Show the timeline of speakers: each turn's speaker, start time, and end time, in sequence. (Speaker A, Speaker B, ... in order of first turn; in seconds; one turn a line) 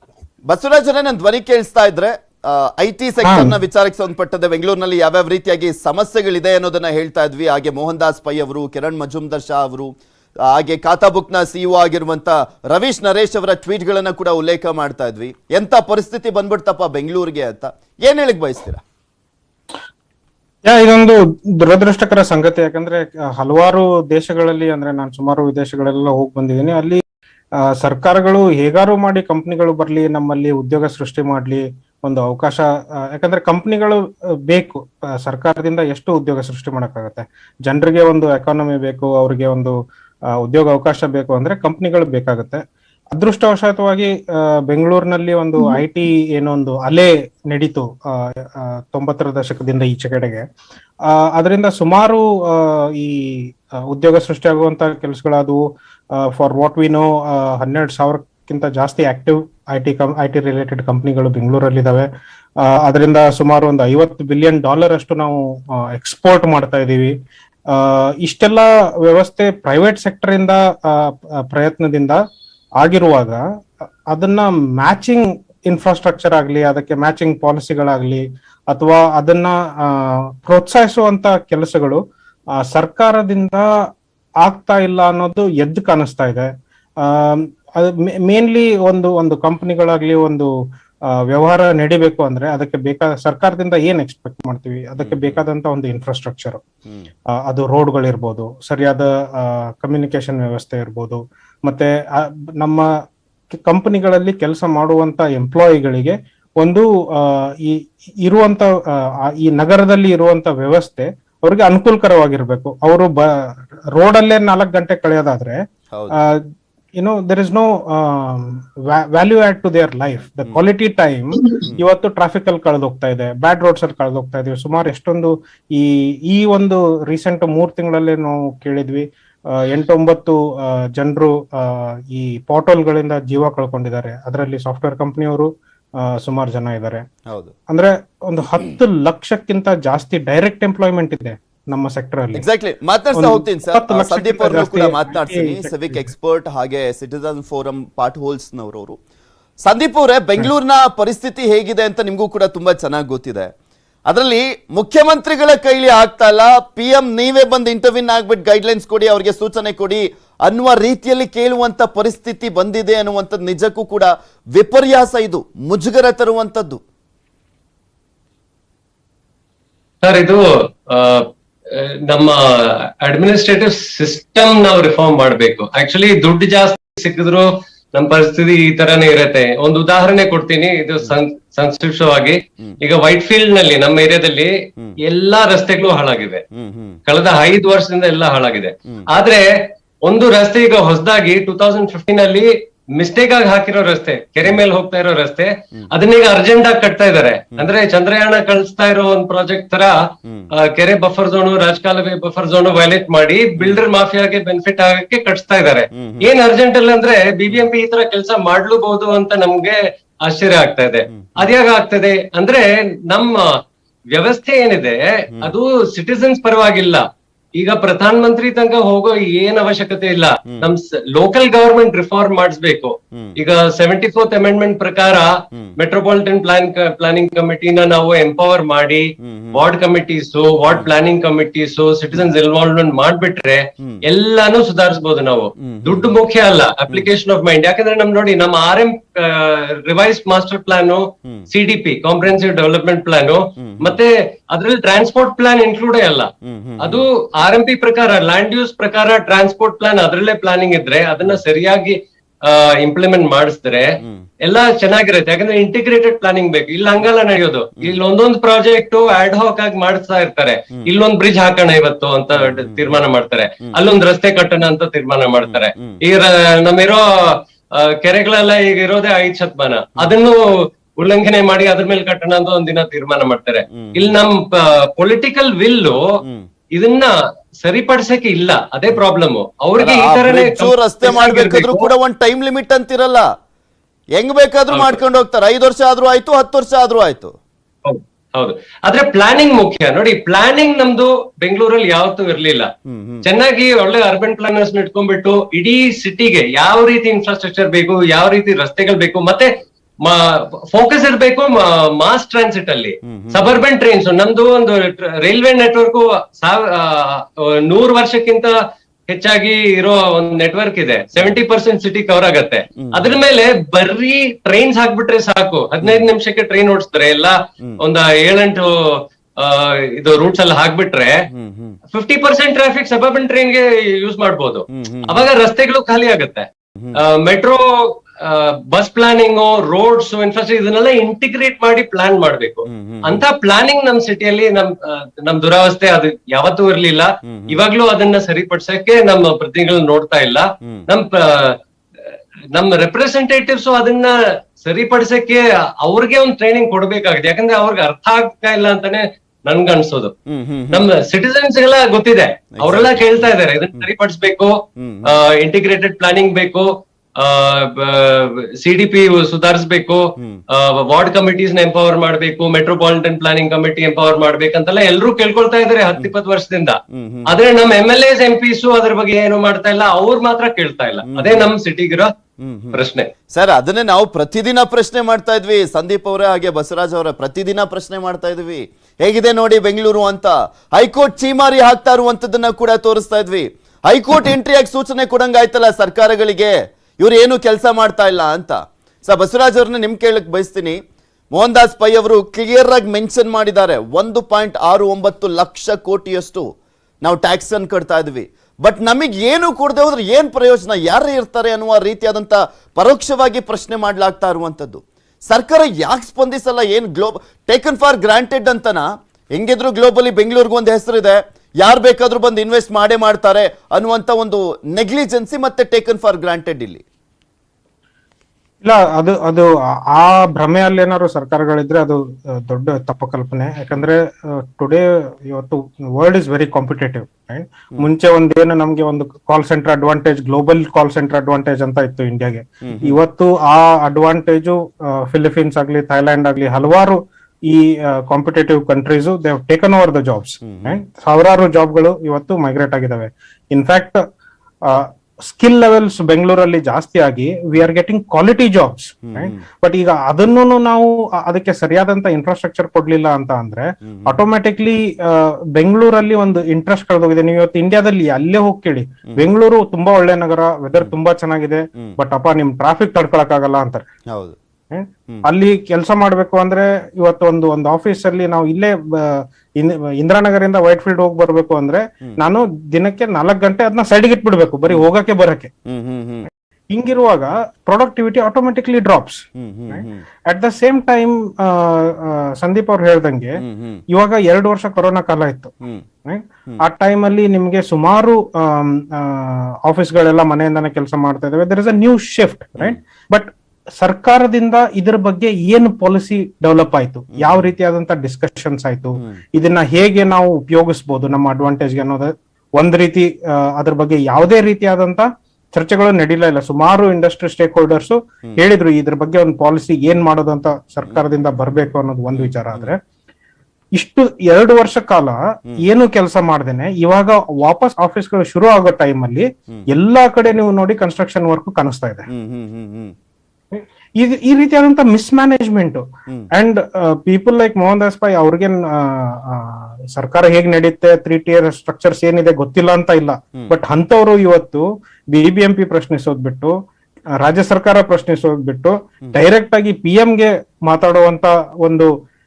Speaker A: 0.5-9.9
Speaker B: 3.2-3.5
Speaker A: 10.4-18.8
Speaker B: 20.7-27.0
Speaker B: 27.6-39.7
Speaker B: 40.3-42.6
Speaker B: 43.1-50.4
Speaker B: 51.1-55.6
Speaker B: 56.1-62.1
Speaker B: 62.6-67.1
Speaker B: 67.7-72.2
Speaker B: 72.8-73.4
Speaker B: 74.1-82.0
Speaker B: 82.6-83.6
Speaker B: 84.4-86.5
Speaker B: 87.0-90.5
Speaker B: 91.1-96.6
Speaker A: 95.0-95.4
Speaker B: 97.3-102.9
Speaker B: 103.7-108.7
Speaker B: 109.3-115.6
Speaker B: 116.1-116.4
Speaker B: 117.0-135.5
Speaker B: 136.0-137.0
Speaker A: 137.3-137.5
Speaker B: 137.7-142.4
Speaker A: 142.3-149.0
Speaker B: 143.2-146.1
Speaker A: 149.6-153.5
Speaker A: 154.1-166.8
Speaker C: 170.0-186.4
Speaker A: 186.5-187.0
Speaker C: 187.1-213.6
Speaker A: 203.6-203.8
Speaker A: 205.9-206.3
Speaker A: 211.1-211.5
Speaker C: 214.1-217.0
Speaker C: 217.5-276.2
Speaker A: 229.2-229.6
Speaker A: 235.6-236.1
Speaker A: 243.6-244.0
Speaker A: 246.4-247.1
Speaker A: 254.0-254.2
Speaker A: 262.3-263.0
Speaker A: 265.4-266.0
Speaker A: 273.7-274.2
Speaker A: 276.2-276.5
Speaker C: 276.7-281.9
Speaker A: 279.8-283.2
Speaker A: 284.2-287.3
Speaker C: 284.7-285.0
Speaker C: 287.8-292.7
Speaker A: 292.9-293.2
Speaker C: 293.2-308.5
Speaker A: 303.1-303.6
Speaker C: 309.1-321.3
Speaker A: 312.8-313.2
Speaker A: 315.8-316.1
Speaker A: 321.3-321.8
Speaker C: 321.9-341.6
Speaker A: 324.7-325.3
Speaker A: 332.7-333.2
Speaker A: 337.3-337.7
Speaker C: 342.5-350.1
Speaker A: 350.3-350.9
Speaker C: 350.7-372.1
Speaker A: 352.6-353.9
Speaker A: 354.8-355.1
Speaker A: 366.9-367.3
Speaker A: 371.1-371.5
Speaker A: 372.4-372.8
Speaker C: 372.7-373.1
Speaker A: 373.3-390.8
Speaker A: 391.3-396.5
Speaker A: 397.0-416.8
Speaker B: 418.6-444.0
Speaker A: 432.6-433.0
Speaker A: 440.4-440.8
Speaker B: 444.6-463.8
Speaker A: 449.0-449.4
Speaker A: 453.9-454.2
Speaker A: 464.1-464.4
Speaker B: 464.7-475.5
Speaker A: 475.6-476.3
Speaker B: 476.7-512.8
Speaker A: 479.4-480.0
Speaker A: 483.4-483.8
Speaker A: 497.1-497.5
Speaker A: 512.1-512.7
Speaker B: 513.8-522.1
Speaker A: 522.1-522.9
Speaker B: 523.5-536.5
Speaker B: 537.2-541.9